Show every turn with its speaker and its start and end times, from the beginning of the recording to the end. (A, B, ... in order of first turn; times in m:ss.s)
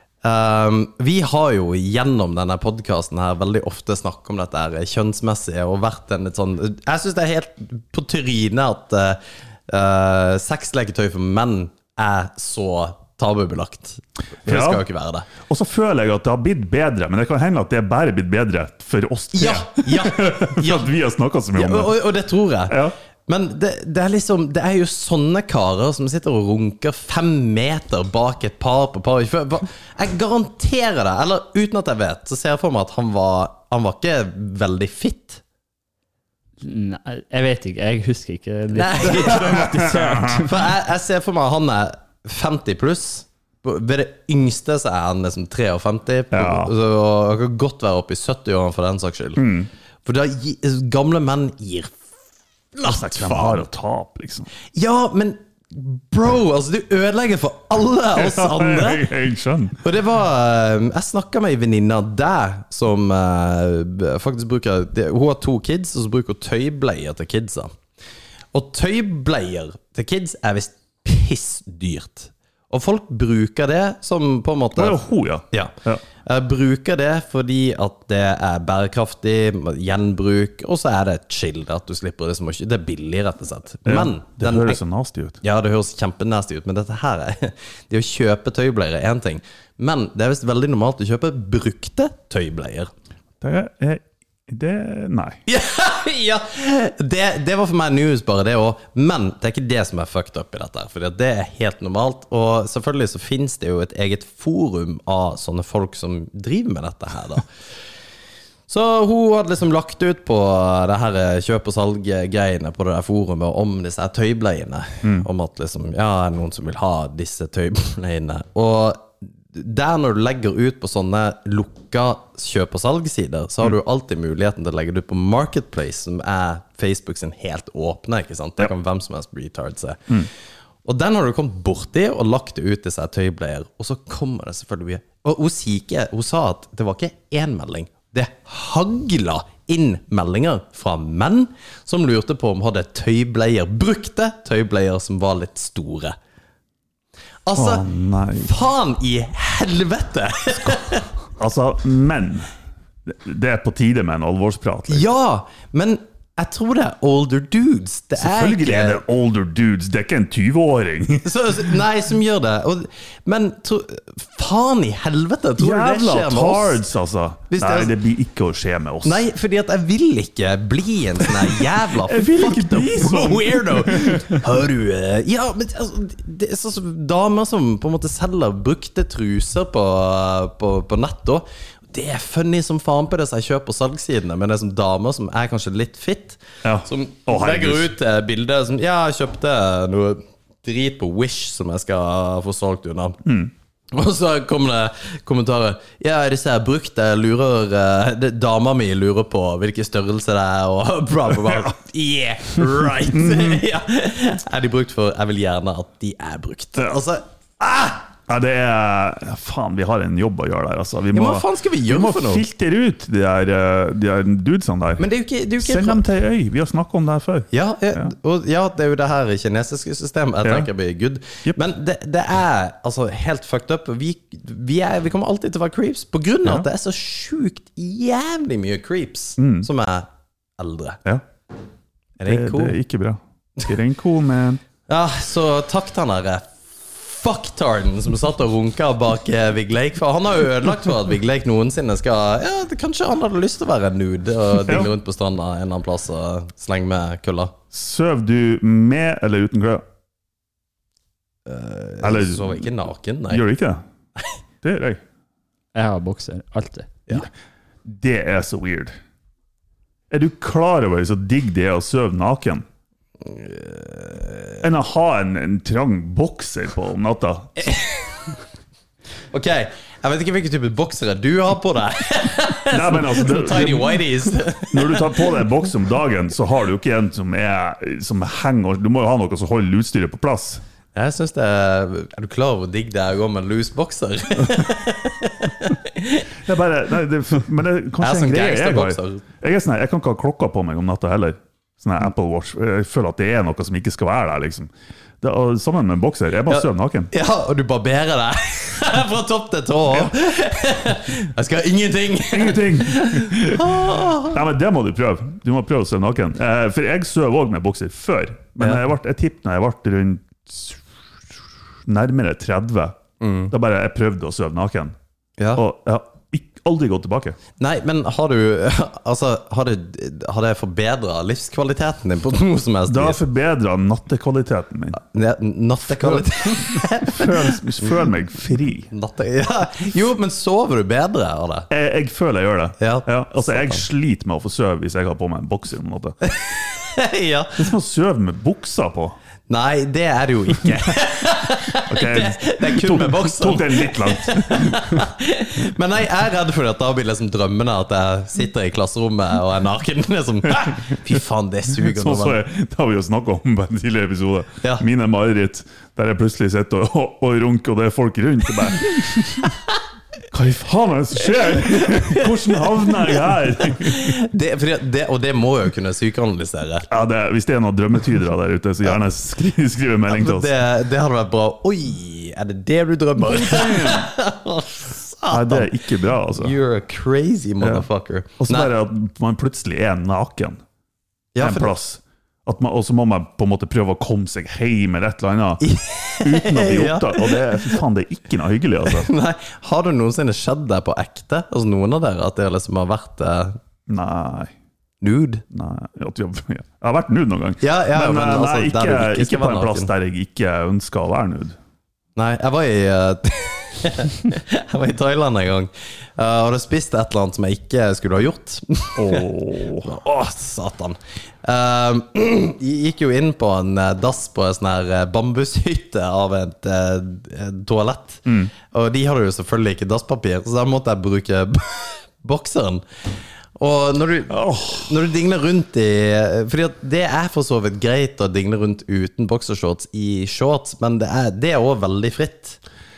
0:00.2-0:15.3 A
0:14.4-0:14.8 B
0:15.4-0:22.0 B
0:19.3-0:20.9 A
0:21.5-0:35.4 A
0:22.7-0:22.9 B
0:36.6-0:40.5 C
0:38.7-0:49.4 A
0:39.3-0:40.4 B
0:46.3-0:46.7 B
0:49.4-0:49.7 B
0:50.0-0:52.0 A
0:52.7-0:53.6 A
0:52.8-0:54.5 B
0:54.7-0:59.1 A
0:58.2-0:59.8 B
0:59.8-1:07.8 A
1:08.5-1:15.0 A
1:14.8-1:16.0 B
1:15.5-1:24.8 A
1:23.9-1:25.4 B
1:25.4-1:32.9 A
1:33.4-1:35.4 B
1:35.5-1:47.5 A
1:48.7-2:10.3 A
2:10.8-2:26.2 A
2:27.5-2:27.9 A
2:27.6-2:28.6 B
2:28.4-2:31.1 A
2:31.4-2:32.5 B
2:33.1-2:35.1 B
2:34.9-2:39.0 A
2:38.2-2:41.3 B
2:41.2-2:46.8 A
2:45.6-2:49.2 B
2:47.5-2:47.9 A
2:49.0-3:13.2 A
2:52.0-2:54.4 B
3:06.6-3:07.9 B
3:13.2-3:13.5 B
3:13.9-3:28.0 A
3:23.1-3:23.6 B
3:28.3-3:35.0 B
3:31.1-3:32.4 A
3:35.0-3:36.0 A
3:35.6-3:38.1 B
3:37.5-3:51.0 A
3:40.4-3:40.7 B
3:49.4-3:49.7 B
3:52.2-3:52.8 A
3:52.2-3:54.6 B
3:54.9-4:07.5 A
4:07.7-4:09.8 B
4:11.5-4:13.4 A
4:12.0-4:12.7 B
4:13.3-4:13.8 B
4:14.6-4:15.0 B
4:15.8-4:16.9 C
4:17.9-4:19.0 B
4:20.1-4:22.6 B
4:23.2-4:24.6 A
4:24.6-4:27.7 B
4:27.6-4:28.2 A
4:29.3-4:35.5 A
4:32.7-4:34.1 B
4:34.7-4:40.6 B
4:40.9-4:46.2 A
4:46.4-4:54.7 B
4:48.0-4:49.2 A
4:55.2-4:57.1 B
4:56.5-5:04.4 A
5:02.3-5:10.8 B
5:11.9-5:13.0 B
5:13.2-5:13.5 A
5:13.5-5:14.9 B
5:15.4-5:15.6 A
5:15.5-5:17.4 B
5:17.6-5:23.2 A
5:22.9-5:25.0 B
5:24.9-5:27.9 A
5:25.9-5:28.9 B
5:28.9-5:31.7 A
5:31.7-5:36.3 B
5:32.8-5:33.8 A
5:36.4-5:37.8 A
5:37.6-5:39.2 B
5:39.5-5:52.4 A
5:41.9-5:45.0 B
5:50.5-5:50.8 B
5:51.8-5:59.5 B
6:00.3-6:04.2 B
6:01.2-6:06.9 A
6:06.9-6:10.5 B
6:10.1-6:18.7 A
6:13.2-6:14.1 B
6:15.3-6:16.6 B
6:17.6-6:17.8 B
6:18.4-6:20.6 B
6:21.3-6:21.7 A
6:21.4-6:25.7 B
6:25.6-6:27.8 A
6:26.2-6:29.1 B
6:28.8-6:33.6 A
6:33.9-6:34.5 B
6:35.0-6:35.4 A
6:35.5-6:41.6 B
6:37.6-6:39.9 A
6:42.2-6:49.3 A
6:49.0-6:50.0 B
6:49.8-7:02.8 A
7:03.6-7:12.6 A
7:04.3-7:05.0 B